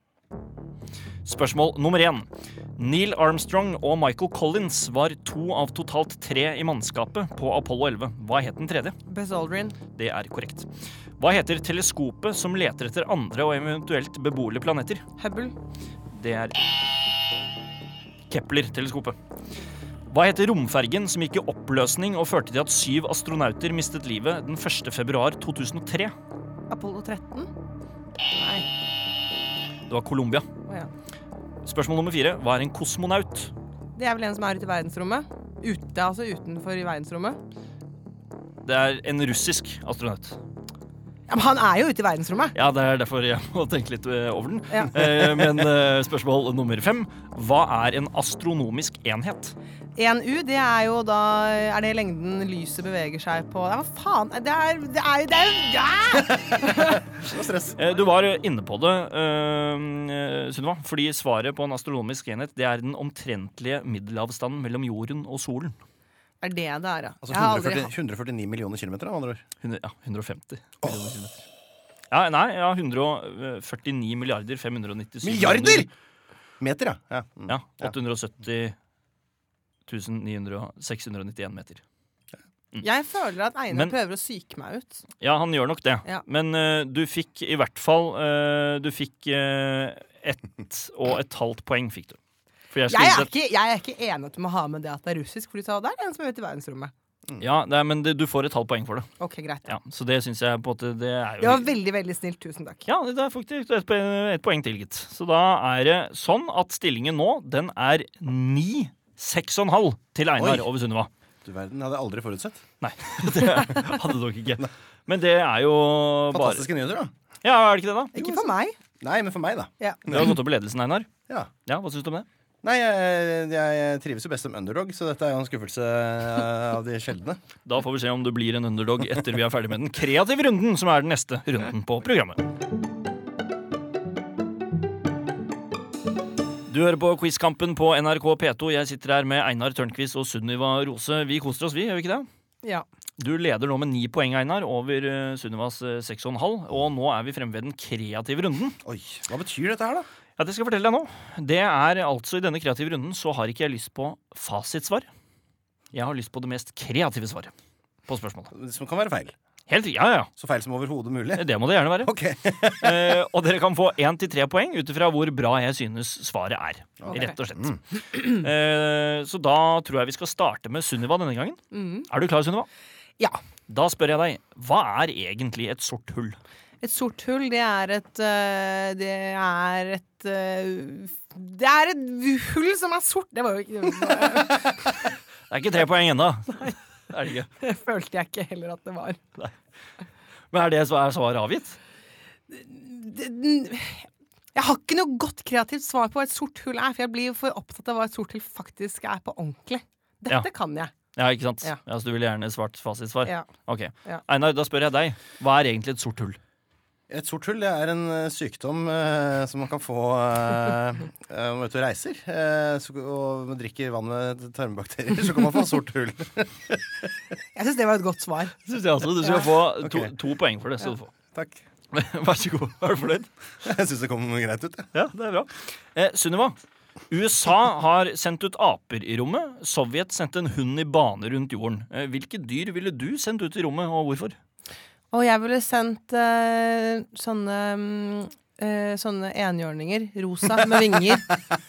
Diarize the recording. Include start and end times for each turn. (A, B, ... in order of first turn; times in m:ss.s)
0:01.2-0:09.0 A
0:09.1-0:09.8 B
0:09.9-0:10.7 A
0:11.2-0:15.0 A
0:15.2-0:15.5 B
0:16.1-0:16.6 A
0:18.3-0:19.2 A
0:20.1-0:26.1 A
0:26.7-0:27.5 B
0:28.3-0:28.6 B
0:29.9-0:30.5 A
0:31.6-0:33.5 A
0:34.0-0:37.4 B
0:38.6-0:40.4 A
0:41.3-0:42.5 B
0:42.5-0:49.5 A
0:50.0-0:57.0 B
0:56.8-0:57.9 C
0:57.8-1:05.8 A
1:06.4-1:07.9 B
1:07.2-1:09.4 C
1:09.6-1:11.4 A
1:12.1-1:15.9 A
1:15.2-1:15.9 C
1:16.6-1:17.9 C
1:17.5-1:18.7 A
1:19.9-1:21.8 A
1:22.8-1:25.0 B
1:25.2-1:32.2 A
1:32.7-1:33.3 A
1:32.9-1:36.9 B
1:37.4-1:39.1 A
1:39.2-1:39.7 B
1:39.6-1:41.7 A
1:41.4-1:42.9 B
1:42.8-1:51.1 A
1:50.4-1:50.7 C
1:51.4-1:52.6 C
1:52.8-1:56.7 A
1:56.3-1:57.1 C
1:57.4-1:58.3 A
1:58.1-1:58.7 B
1:59.0-2:00.3 C
1:59.8-2:00.1 B
2:00.1-2:01.1 A
2:01.7-2:02.2 A
2:02.6-2:07.4 C
2:07.6-2:12.4 A
2:16.7-2:22.3 A
2:23.2-2:28.8 A
2:28.8-2:30.1 C
2:30.4-2:35.1 A
2:35.9-2:37.5 A
2:38.1-2:38.5 A
2:38.5-2:39.3 C
2:39.7-2:40.3 A
2:40.4-2:41.4 C
2:41.3-2:42.1 A
2:42.0-2:43.2 C
2:42.8-2:52.7 A
2:47.0-2:47.8 C
2:51.7-2:52.1 B
2:53.7-2:56.4 A
2:56.8-3:04.9 B
3:05.5-3:07.5 A
3:07.6-3:09.2 B
3:10.5-3:11.8 A
3:12.5-3:20.9 B
3:21.1-3:26.4 A
3:27.1-3:36.8 C
3:37.5-3:38.5 B
3:38.6-3:41.1 A
3:39.8-3:40.1 C
3:41.3-3:41.6 C
3:41.9-3:43.3 A
3:43.6-3:44.9 C
3:44.9-3:46.6 A
3:47.1-3:54.4 A
3:55.1-4:01.4 B